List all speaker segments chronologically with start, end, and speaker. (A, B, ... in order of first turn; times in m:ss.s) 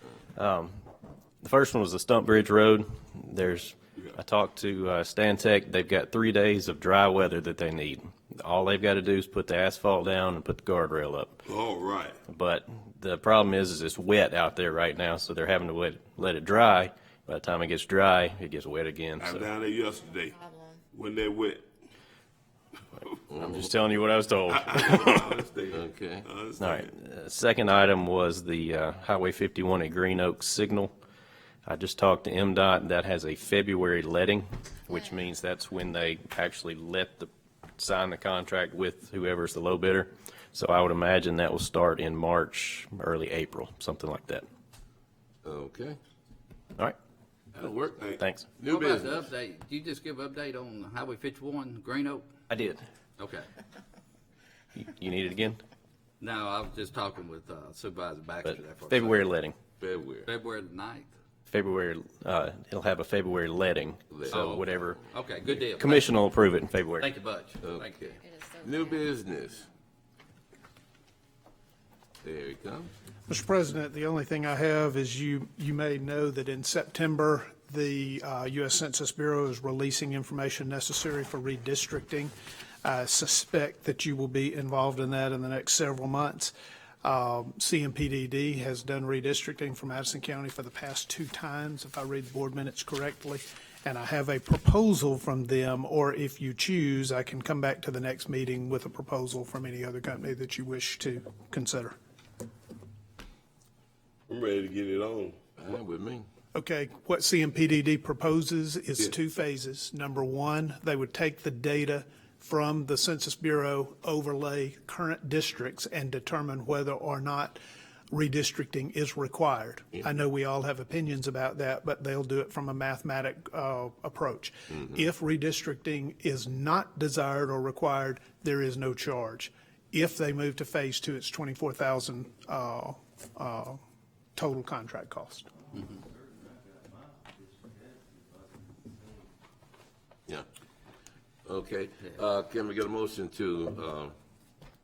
0:00.4-0:00.8 A
0:01.4-0:11.3 A
0:11.5-0:12.2 B
0:12.3-0:19.5 A
0:19.2-0:21.7 B
0:23.3-0:23.6 C
0:23.3-0:25.4 A
0:24.5-0:26.9 B
0:25.7-0:26.3 C
0:26.6-0:30.9 A
0:31.6-0:44.4 A
0:45.4-0:46.0 C
0:47.5-0:49.3 C
0:47.9-0:48.2 B
0:48.2-0:48.5 A
0:48.6-0:52.3 D
0:52.5-0:52.8 A
0:53.2-0:53.5 D
0:54.7-0:55.6 A
0:56.2-0:59.2 D
0:58.4-0:59.6 A
0:59.8-1:00.3 C
1:00.2-1:01.1 D
1:01.5-1:05.0 A
1:04.1-1:05.0 C
1:04.3-1:06.1 D
1:05.8-1:07.1 A
1:07.0-1:08.0 D
1:07.6-1:09.7 C
1:12.2-1:12.9 C
1:13.3-1:22.3 E
1:22.8-1:42.0 E
1:44.3-1:45.4 B
1:45.6-1:46.3 C
1:46.5-1:57.6 E
1:58.1-2:13.8 E
2:14.4-2:15.5 E
2:21.4-2:24.2 C